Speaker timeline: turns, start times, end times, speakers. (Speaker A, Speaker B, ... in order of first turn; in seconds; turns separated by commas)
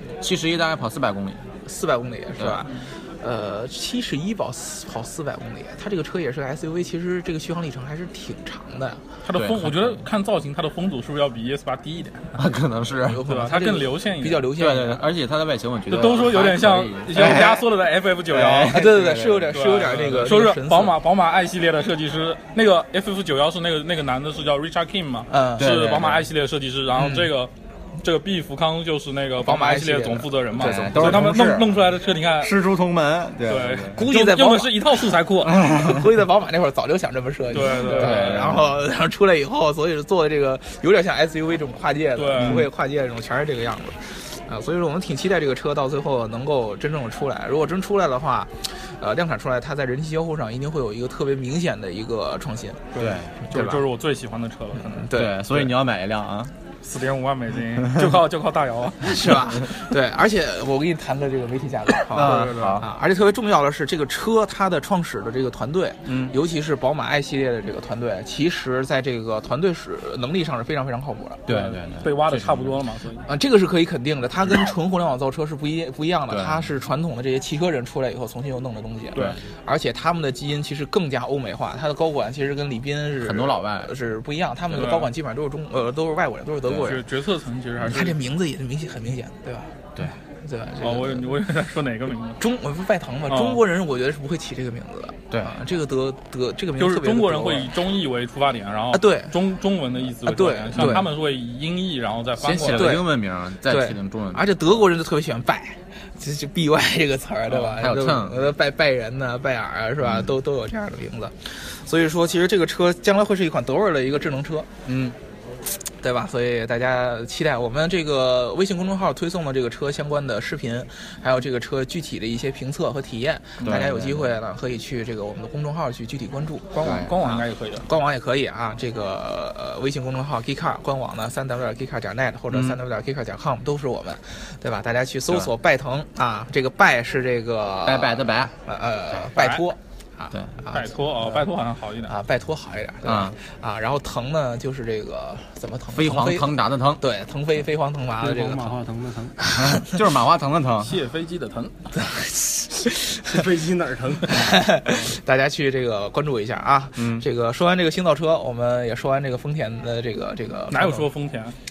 Speaker A: 0.2-1.4, Speaker B: 1.6-9.0, Speaker A: 2.4-2.6, Speaker C: 9.2-12.3, Speaker A: 9.3-10.0, Speaker A: 12.4-13.2, Speaker B: 13.1-15.0, Speaker C: 13.3-14.5, Speaker A: 14.6-17.7, Speaker C: 15.9-32.6, Speaker B: 17.1-17.5, Speaker A: 18.3-19.5, Speaker B: 18.6-21.0, Speaker B: 25.3-25.6, Speaker A: 25.6-26.3, Speaker B: 26.9-27.3, Speaker B: 29.4-31.3, Speaker A: 30.5-31.8, Speaker A: 32.4-34.0, Speaker C: 33.5-35.6, Speaker B: 33.9-52.8, Speaker A: 35.6-36.0, Speaker C: 37.5-38.5, Speaker A: 37.7-38.7, Speaker C: 42.1-42.7, Speaker A: 42.4-42.6, Speaker C: 52.9-55.7, Speaker A: 53.0-53.3, Speaker B: 53.5-53.8, Speaker B: 54.9-55.4, Speaker A: 55.1-56.5, Speaker C: 56.8-59.4, Speaker B: 59.0-71.4, Speaker C: 62.1-62.9, Speaker A: 62.1-62.9, Speaker A: 66.1-66.3, Speaker A: 71.5-72.7, Speaker C: 71.5-73.3, Speaker B: 73.3-87.0, Speaker A: 76.3-76.7, Speaker A: 79.1-79.4, Speaker A: 83.2-83.9, Speaker C: 84.7-85.1, Speaker A: 86.7-86.9, Speaker C: 86.8-88.2, Speaker B: 87.8-89.7, Speaker B: 90.4-91.2, Speaker C: 90.8-92.4, Speaker B: 92.4-97.7, Speaker C: 93.3-93.6, Speaker A: 95.3-95.6, Speaker C: 96.8-102.9, Speaker B: 98.9-99.3, Speaker B: 100.3-101.1, Speaker A: 100.8-101.0, Speaker A: 102.4-104.6, Speaker B: 102.7-103.0, Speaker B: 103.7-114.7, Speaker A: 107.7-108.5, Speaker A: 110.0-110.3, Speaker A: 114.9-115.2, Speaker B: 116.0-140.9, Speaker A: 123.6-124.3, Speaker C: 126.7-127.9, Speaker A: 126.8-127.2, Speaker A: 132.5-132.8, Speaker A: 137.8-138.5, Speaker C: 139.3-139.6, Speaker C: 140.7-142.1, Speaker B: 142.1-148.8, Speaker A: 143.0-143.4, Speaker A: 145.9-147.0, Speaker D: 148.2-149.3, Speaker A: 149.6-151.0, Speaker C: 150.8-151.7, Speaker B: 151.9-153.4, Speaker D: 153.3-154.5, Speaker B: 154.3-161.1, Speaker A: 156.9-157.2, Speaker C: 160.7-161.6